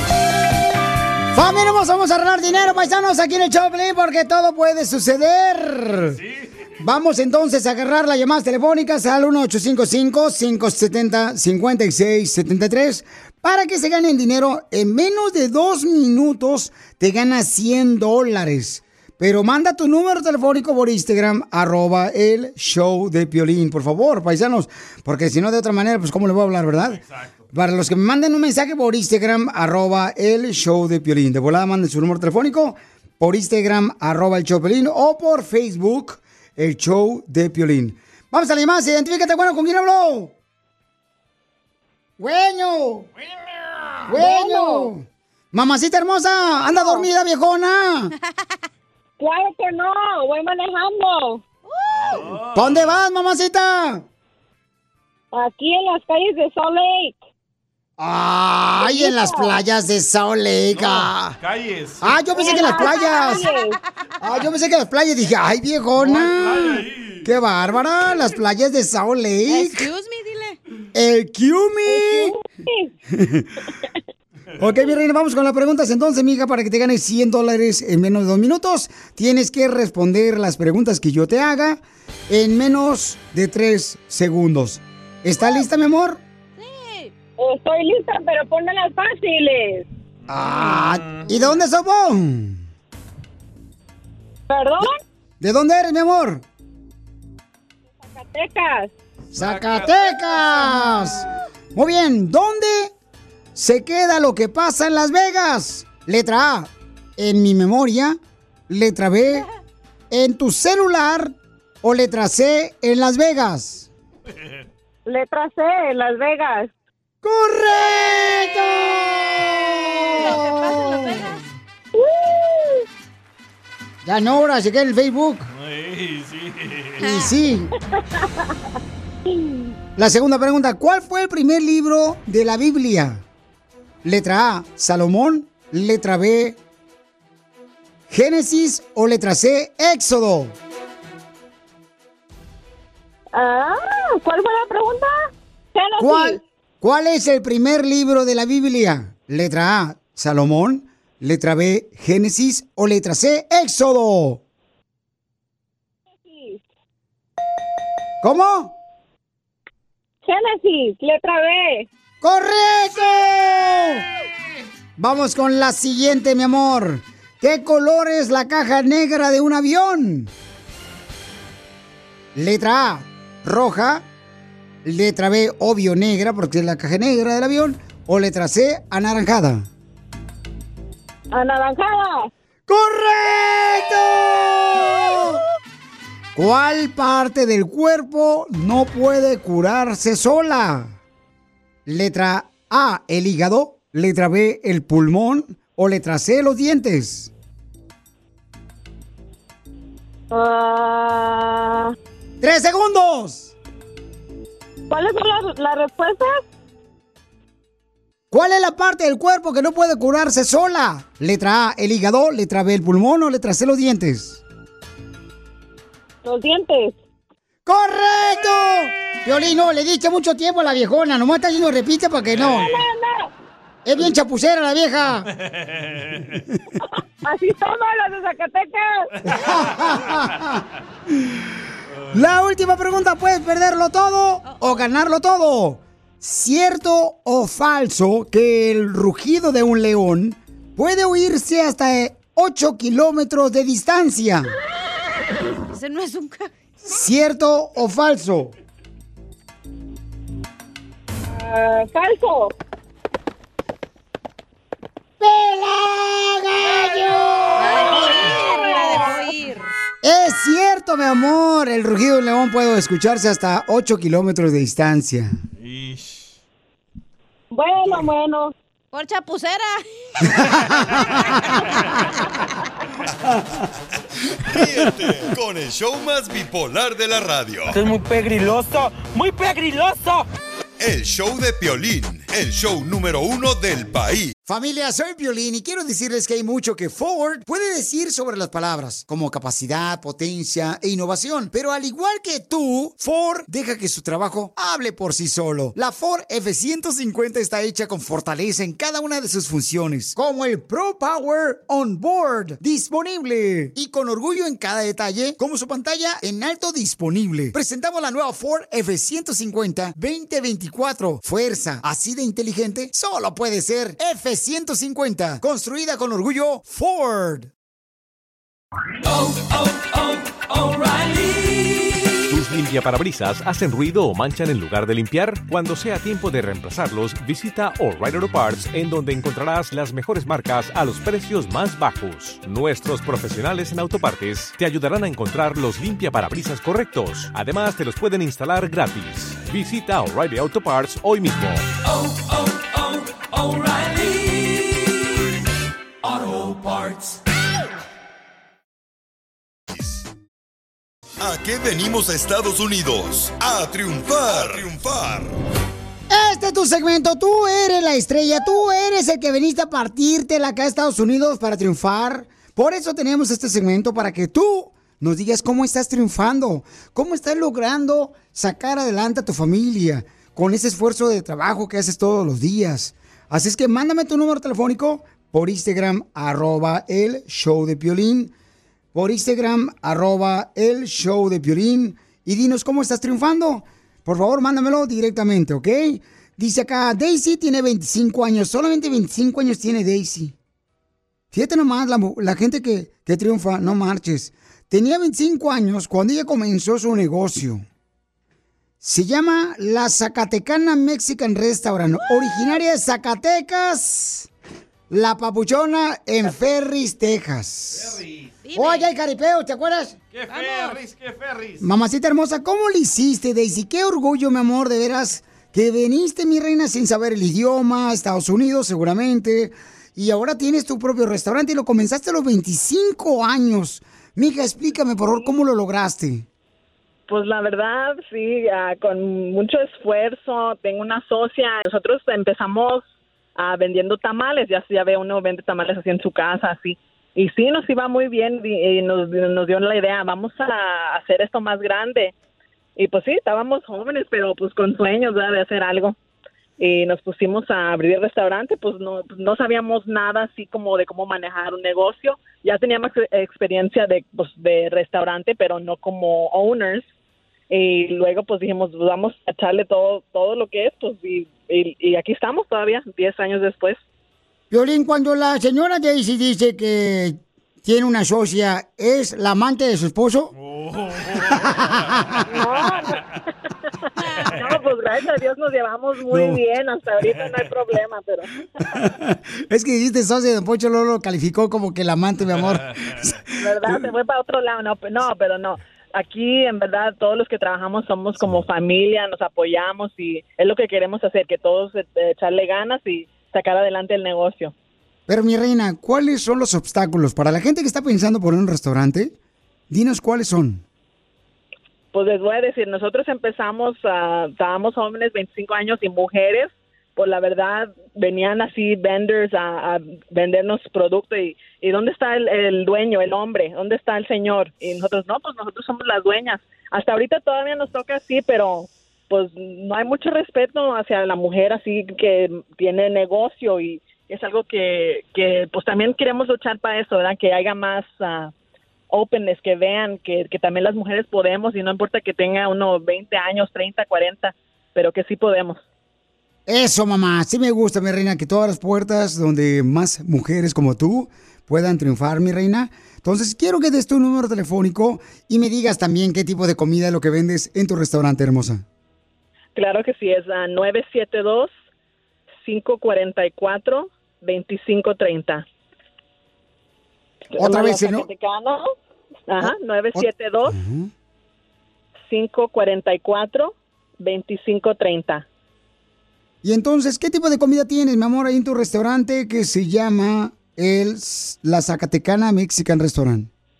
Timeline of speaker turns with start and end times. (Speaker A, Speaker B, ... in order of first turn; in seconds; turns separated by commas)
Speaker A: 1.3-6.2, Speaker B: 6.1-6.7, Speaker A: 6.8-27.0, Speaker B: 26.9-27.5, Speaker A: 27.5-40.3, Speaker A: 42.2-43.0, Speaker B: 43.6-44.0, Speaker A: 44.1-48.1, Speaker C: 44.2-44.9, Speaker C: 46.7-47.1, Speaker C: 49.2-51.4, Speaker D: 51.7-52.3, Speaker B: 51.9-53.0, Speaker A: 52.5-54.0, Speaker C: 55.3-57.2, Speaker A: 58.0-61.4, Speaker C: 58.8-59.5, Speaker B: 60.7-62.0, Speaker A: 62.0-63.5, Speaker C: 62.3-63.7, Speaker D: 62.7-63.7, Speaker A: 64.2-69.9, Speaker B: 66.0-67.3, Speaker D: 69.5-70.6, Speaker A: 70.9-72.3, Speaker C: 71.8-72.9, Speaker A: 73.1-73.5, Speaker A: 74.6-86.2, Speaker D: 86.6-87.1, Speaker C: 87.4-89.8, Speaker B: 90.2-91.5, Speaker A: 90.3-92.6, Speaker C: 94.5-94.9, Speaker A: 95.4-96.4, Speaker C: 98.1-98.9, Speaker B: 99.3-101.2, Speaker A: 99.3-102.9, Speaker A: 103.5-108.2, Speaker A: 108.7-109.4, Speaker A: 110.1-113.9, Speaker B: 114.3-114.7, Speaker C: 115.0-116.7, Speaker A: 117.2-121.3, Speaker D: 120.2-121.4, Speaker C: 121.9-122.8, Speaker A: 124.0-125.5, Speaker B: 125.5-127.0, Speaker A: 127.0-127.7, Speaker D: 127.0-127.3, Speaker C: 129.3-129.6, Speaker A: 129.9-133.2, Speaker A: 134.0-136.6, Speaker A: 138.1-140.5, Speaker C: 143.3-145.2, Speaker C: 145.7-146.4, Speaker A: 146.0-154.4, Speaker C: 156.2-156.6, Speaker A: 158.2-158.7, Speaker C: 160.2-161.8, Speaker A: 162.2-164.0, Speaker A: 165.0-170.3, Speaker A: 172.3-174.0, Speaker A: 174.8-179.7, Speaker C: 181.3-182.3, Speaker A: 182.7-185.4, Speaker A: 186.3-191.0, Speaker A: 191.8-197.3, Speaker C: 200.3-201.9, Speaker A: 202.4-203.5, Speaker C: 204.9-206.4, Speaker A: 208.3-214.4, Speaker C: 216.2-216.9, Speaker A: 217.7-222.7, Speaker B: 222.3-222.8, Speaker C: 222.7-223.3, Speaker A: 223.8-225.3, Speaker B: 225.4-226.4, Speaker C: 227.2-228.9, Speaker A: 229.2-230.6, Speaker B: 229.5-230.0, Speaker B: 231.9-232.2, Speaker A: 232.1-244.5, Speaker D: 234.4-234.8, Speaker D: 245.7-246.5, Speaker A: 246.8-248.5, Speaker C: 251.3-252.5, Speaker A: 255.2-258.0, Speaker D: 257.6-259.7, Speaker A: 260.0-265.3, Speaker B: 265.6-266.4, Speaker C: 267.5-268.5, Speaker B: 267.8-268.1, Speaker D: 268.9-269.8, Speaker A: 270.4-270.7, Speaker E: 274.5-277.8, Speaker F: 277.8-280.2, Speaker E: 280.8-284.3, Speaker A: 284.4-317.5, Speaker G: 322.3-341.6, Speaker E: 349.7-350.0, Speaker E: 351.2-355.3, Speaker A: 356.1-378.3, Speaker A: 378.9-390.3, Speaker A: 391.3-397.6, Speaker A: 398.8-404.3, Speaker D: 402.0-402.4, Speaker A: 404.9-408.0, Speaker B: 407.7-408.3, Speaker D: 408.4-408.9, Speaker A: 408.5-410.0, Speaker B: 410.1-411.6, Speaker D: 410.3-410.8, Speaker A: 411.6-426.2, Speaker H: 427.1-432.8, Speaker H: 433.4-442.1, Speaker H: 442.8-445.9, Speaker H: 446.6-456.9, Speaker H: 457.5-463.8, Speaker A: 464.5-470.3, Speaker B: 470.4-472.1, Speaker A: 471.4-472.2, Speaker C: 472.3-472.7, Speaker D: 474.0-474.3, Speaker H: 474.3-478.3, Speaker A: 476.1-476.4, Speaker B: 477.0-477.4, Speaker A: 478.7-483.9, Speaker B: 482.3-483.2, Speaker H: 483.4-494.5, Speaker A: 495.1-499.1, Speaker A: 499.7-500.6, Speaker H: 501.9-528.3, Speaker H: 528.9-535.6, Speaker A: 536.5-548.6, Speaker H: 549.5-551.5, Speaker H: 552.4-555.4, Speaker H: 557.3-558.7, Speaker A: 557.4-558.1, Speaker H: 559.3-560.5, Speaker A: 559.4-560.9, Speaker H: 562.1-565.2, Speaker A: 566.4-573.3